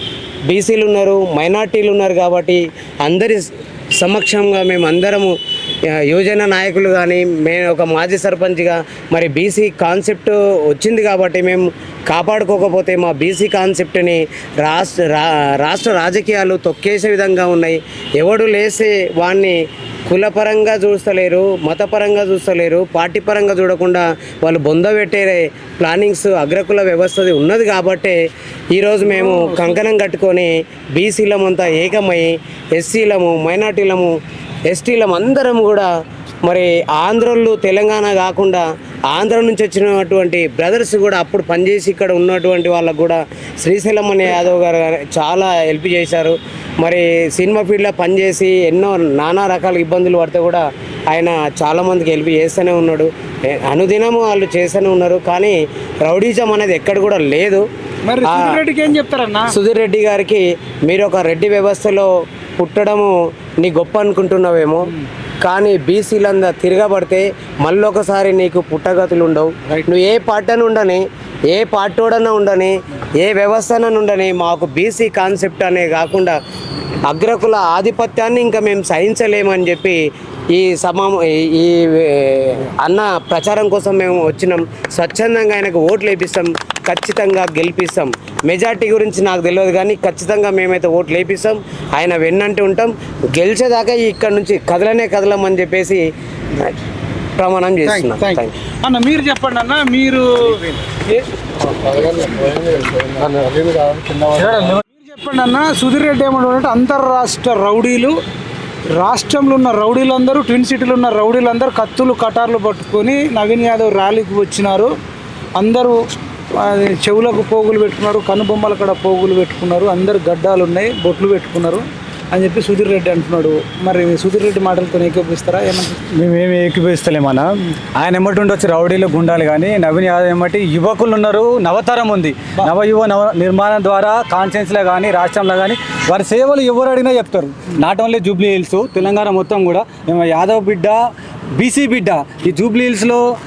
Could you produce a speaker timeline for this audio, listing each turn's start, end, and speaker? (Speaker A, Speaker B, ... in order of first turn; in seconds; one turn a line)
Speaker A: 0.5-28.2
Speaker A: 28.7-34.2
Speaker B: 29.2-29.8
Speaker A: 34.7-35.9
Speaker A: 36.4-57.6
Speaker B: 58.0-59.5
Speaker A: 58.2-58.6
Speaker A: 59.5-76.4
Speaker A: 77.0-80.0
Speaker A: 80.5-96.8
Speaker A: 97.4-98.5
Speaker B: 97.8-101.2
Speaker C: 104.4-104.8
Speaker B: 104.6-108.2
Speaker B: 108.9-114.9
Speaker B: 115.5-116.0
Speaker B: 116.5-126.0
Speaker C: 126.1-141.0
Speaker C: 141.6-143.2